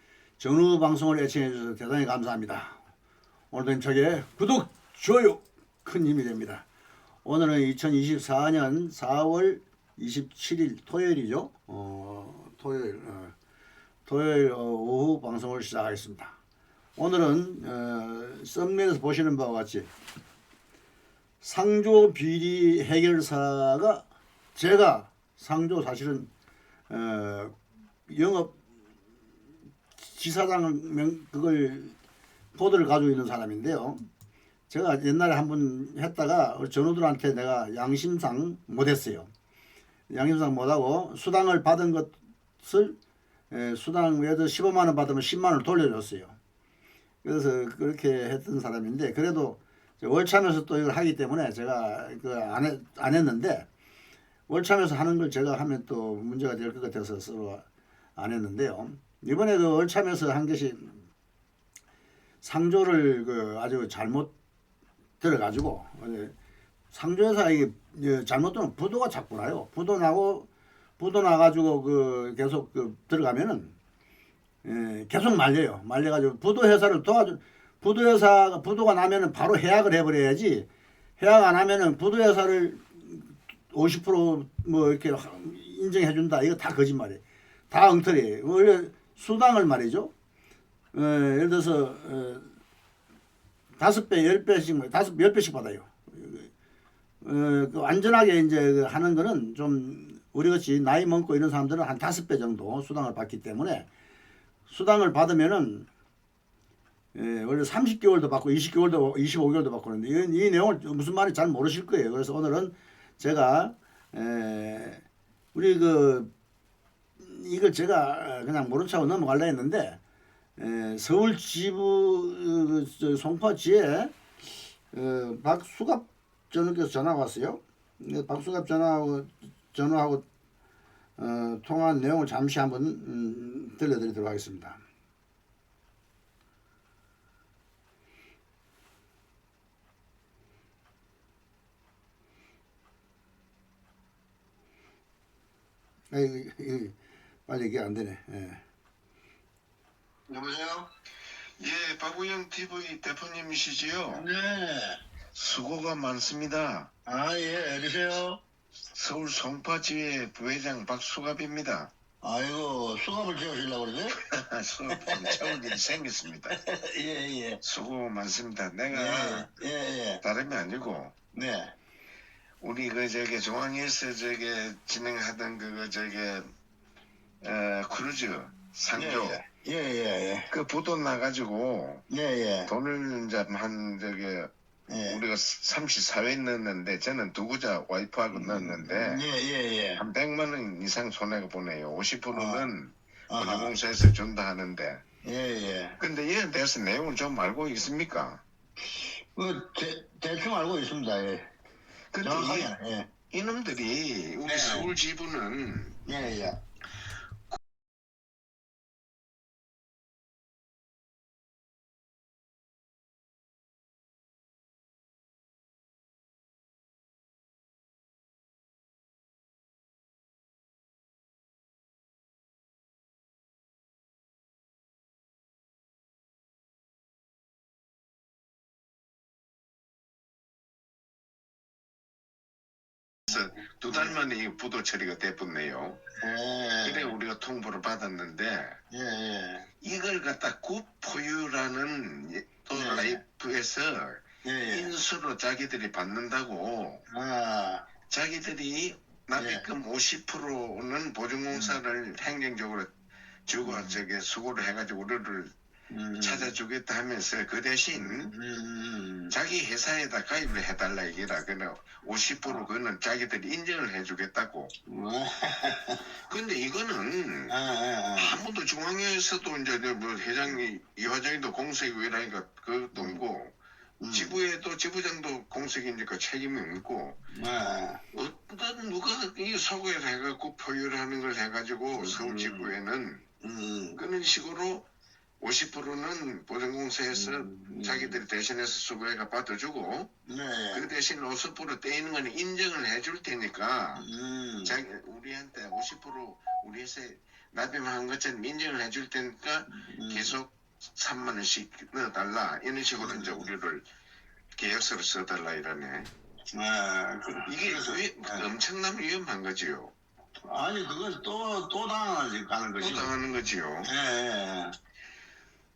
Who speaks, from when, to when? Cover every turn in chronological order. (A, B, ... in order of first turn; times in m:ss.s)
0:00.4-0:02.8 A
0:03.5-0:06.6 A
0:07.2-0:13.3 A
0:14.1-0:16.4 A
0:17.0-0:19.9 A
0:21.4-0:24.0 A
0:24.6-0:26.3 A
0:26.9-0:27.5 A
0:28.1-0:28.6 A
0:30.0-0:32.0 A
0:32.6-0:34.1 A
0:34.7-0:39.3 A
0:40.1-0:43.0 A
0:43.5-0:46.4 A
0:47.2-0:53.7 A
0:54.5-0:57.6 A
0:58.2-1:01.0 A
1:02.4-1:04.3 A
1:05.2-1:06.3 A
1:06.9-1:10.5 A
1:11.0-1:13.8 A
1:14.6-1:20.7 A
1:21.2-1:30.1 A
1:30.9-1:32.5 A
1:33.8-1:36.5 A
1:37.2-1:43.9 A
1:44.7-1:45.9 A
1:47.1-1:55.0 A
1:55.5-1:56.3 A
1:57.2-2:00.0 A
2:00.6-2:04.2 A
2:04.9-2:10.2 A
2:11.2-2:14.8 A
2:26.1-2:27.0 A
2:27.5-2:28.6 A
2:30.3-2:30.9 B
2:31.6-2:34.3 C
2:34.1-2:35.0 B
2:35.4-2:36.9 C
2:37.1-2:38.4 B
2:38.9-2:41.9 C
2:42.2-2:44.2 B
2:44.2-2:46.6 C
2:44.9-2:45.7 B
2:46.6-2:47.6 B
2:47.6-2:49.5 C
2:48.9-2:50.2 B
2:50.2-2:51.1 C
2:51.3-2:51.7 B
2:52.6-2:56.5 C
2:57.4-2:59.4 C
2:59.0-3:00.5 B
3:00.5-3:02.0 C
3:02.1-3:02.7 B
3:02.7-3:04.5 C
3:04.9-3:05.2 B
3:05.0-3:09.3 C
3:08.3-3:10.0 B
3:10.0-3:15.0 C
3:12.3-3:12.7 B
3:13.3-3:13.8 B
3:15.2-3:16.0 B
3:16.0-3:18.4 C
3:19.0-3:21.5 B
3:22.1-3:22.8 C
3:22.2-3:23.1 B
3:23.3-3:26.0 C
3:24.5-3:24.9 B
3:26.1-3:26.6 B
3:53.3-3:56.0 C
3:53.3-3:54.2 B
3:56.2-3:57.2 B
3:56.8-3:58.8 C
3:58.9-3:59.7 B
3:59.8-4:07.0 C
4:02.7-4:03.2 B
4:04.4-4:04.9 B
4:07.1-4:07.9 B
4:08.1-4:12.9 C
4:09.4-4:09.7 B
4:11.5-4:11.8 B
4:13.5-4:15.5 C
4:13.6-4:14.0 B
4:15.9-4:16.5 B
4:16.2-4:18.3 C
4:17.9-4:19.4 B
4:19.3-4:24.7 C
4:24.9-4:26.1 B
4:26.3-4:27.6 C
4:27.5-4:28.4 B
4:28.2-4:33.6 C
4:34.0-4:34.4 B
4:34.1-4:37.2 C
4:37.3-4:38.0 B
4:38.1-4:43.2 C
4:41.9-4:42.7 B
4:43.4-4:44.0 B
4:43.9-4:44.9 C
4:45.4-4:50.1 C
4:47.1-4:48.2 B
4:50.3-4:50.9 B
4:50.7-4:54.0 C
4:54.0-4:54.8 B
4:54.6-5:03.9 C
4:59.7-5:00.4 B
5:03.0-5:03.5 B
5:04.6-5:06.1 C
5:06.5-5:08.5 B
5:07.4-5:09.9 C
5:10.4-5:13.2 B
5:12.8-5:13.9 C
5:13.8-5:14.8 B